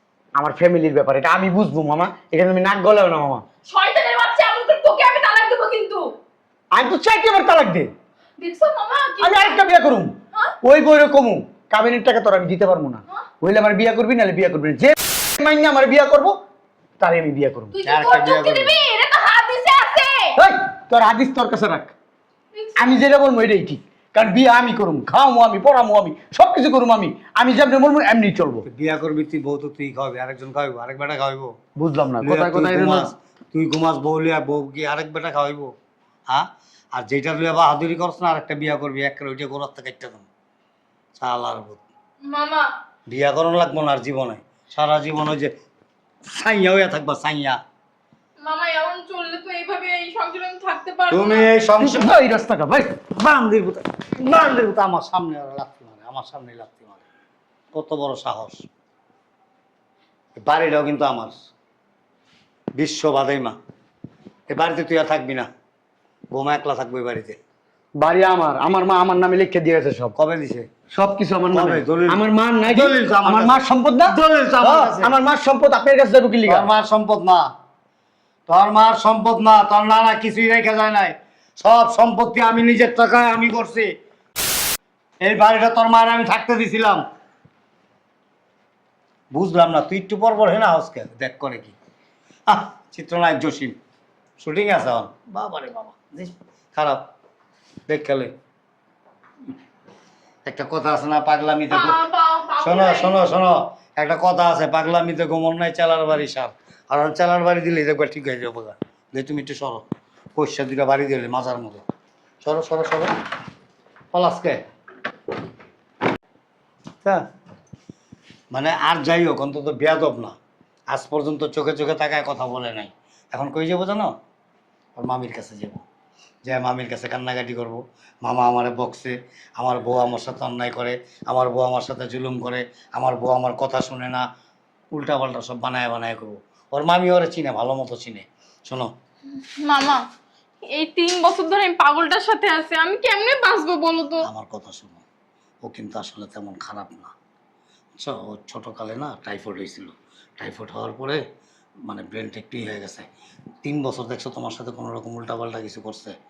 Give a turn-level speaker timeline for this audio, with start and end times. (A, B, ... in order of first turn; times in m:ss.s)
0:00.4-0:03.4 A
0:03.7-0:06.1 B
0:06.7-0:07.9 A
0:08.4-0:09.6 B
0:09.2-0:16.4 A
0:17.0-0:17.8 A
0:17.7-0:20.4 B
0:17.9-0:18.8 C
0:20.4-0:21.9 A
0:22.6-0:22.9 B
0:22.8-0:28.7 A
0:28.7-0:31.6 C
0:31.8-0:33.1 A
0:32.2-0:35.7 C
0:36.3-0:40.3 C
0:41.2-0:41.8 C
0:42.3-0:42.7 B
0:43.1-0:45.5 C
0:46.3-0:47.6 C
0:48.4-0:51.5 B
0:51.1-0:52.2 C
0:51.8-0:53.0 A
0:53.1-0:57.0 C
0:57.7-0:58.7 C
1:00.4-1:01.4 C
1:02.8-1:03.6 C
1:04.5-1:05.5 C
1:06.3-1:07.4 C
1:08.0-1:10.1 A
1:10.2-1:10.7 C
1:10.9-1:16.7 A
1:11.5-1:15.1 C
1:16.5-1:17.5 C
1:18.5-1:23.9 C
1:25.2-1:27.0 C
1:29.3-1:31.7 C
1:32.5-1:33.8 C
1:34.4-1:37.0 C
1:37.9-1:38.3 C
1:40.4-1:42.0 C
1:41.7-1:43.3 B
1:42.6-1:49.8 C
1:50.4-1:51.8 C
1:52.4-1:53.1 C
1:54.1-1:54.6 C
1:58.5-2:00.4 C
2:00.9-2:04.1 C
2:05.0-2:05.8 C
2:06.4-2:14.2 C
2:14.9-2:18.9 C
2:19.6-2:20.0 B
2:20.7-2:24.3 B
2:24.2-2:25.0 C
2:25.6-2:27.1 C
2:28.0-2:31.2 C
2:31.9-2:33.1 C
2:33.6-2:36.2 C